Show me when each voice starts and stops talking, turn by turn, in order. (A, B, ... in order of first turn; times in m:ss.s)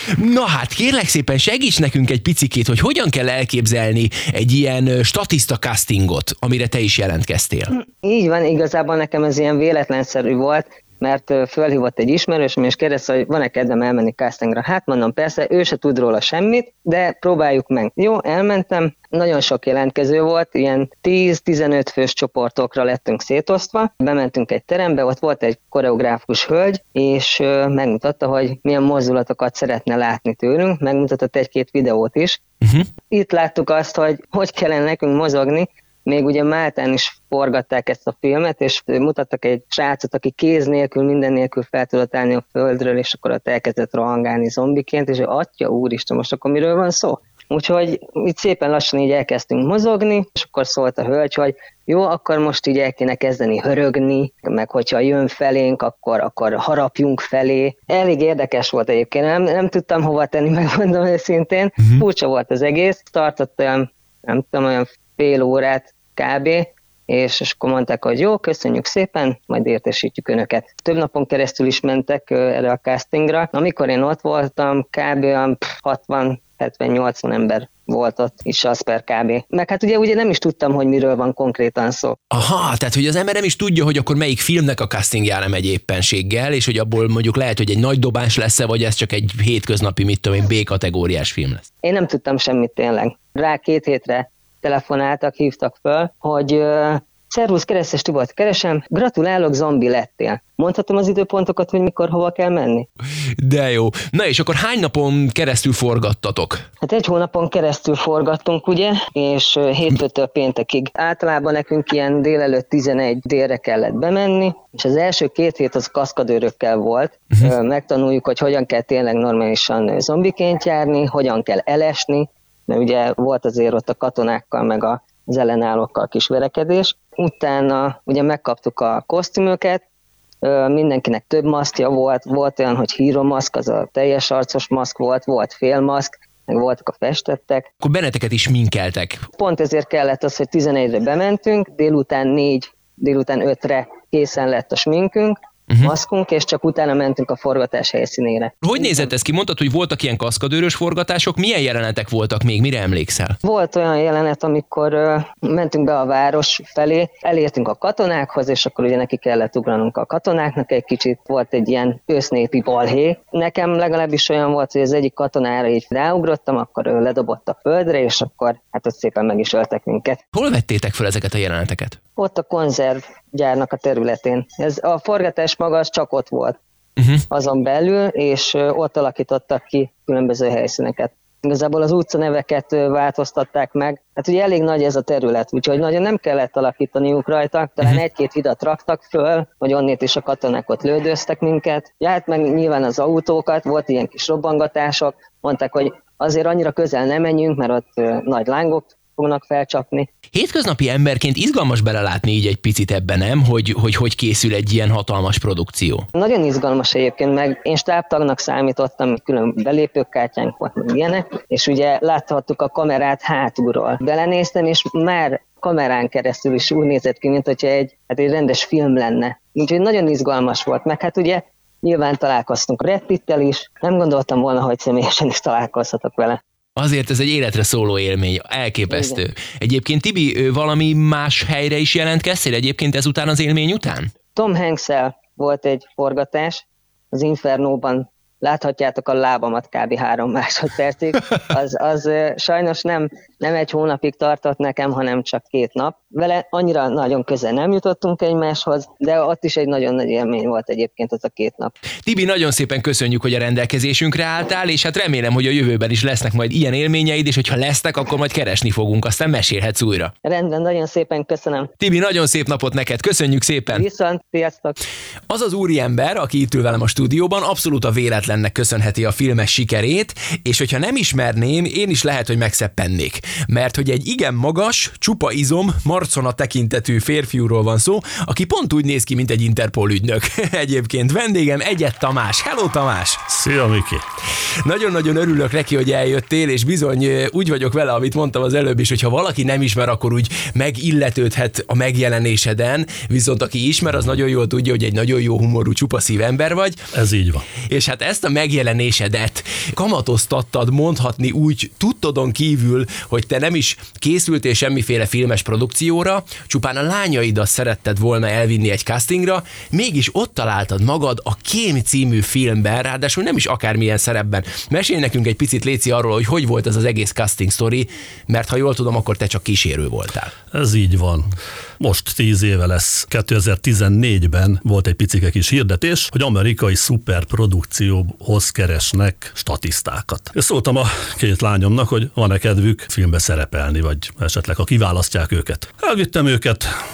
0:00.1-0:07.7 A
0:07.7-0:32.4 B
0:32.6-0:32.9 A
0:33.1-1:22.2 B
1:01.8-1:02.0 A
1:22.3-1:31.6 A
1:31.8-1:42.9 B
1:43.4-1:46.6 A
1:46.8-2:09.8 B
2:10.4-2:17.7 B
2:17.8-2:19.3 A
2:19.4-2:29.1 B
2:28.6-2:33.4 A
2:33.4-2:50.2 B
2:50.3-2:52.0 A
2:52.2-2:56.6 B
2:57.0-2:57.2 A
2:57.3-3:20.1 B
3:20.3-3:26.1 A
3:26.2-3:46.4 B
3:46.8-3:54.1 A
3:48.9-3:49.2 B
3:54.4-4:11.7 B
4:12.0-4:20.1 A
4:20.2-4:21.7 B
4:21.8-4:23.8 A
4:23.7-4:24.8 B
4:25.3-4:43.2 A
4:43.3-4:44.0 C
4:44.6-4:56.8 A
4:56.9-4:57.5 C
4:57.7-5:20.3 A
5:20.5-5:36.7 C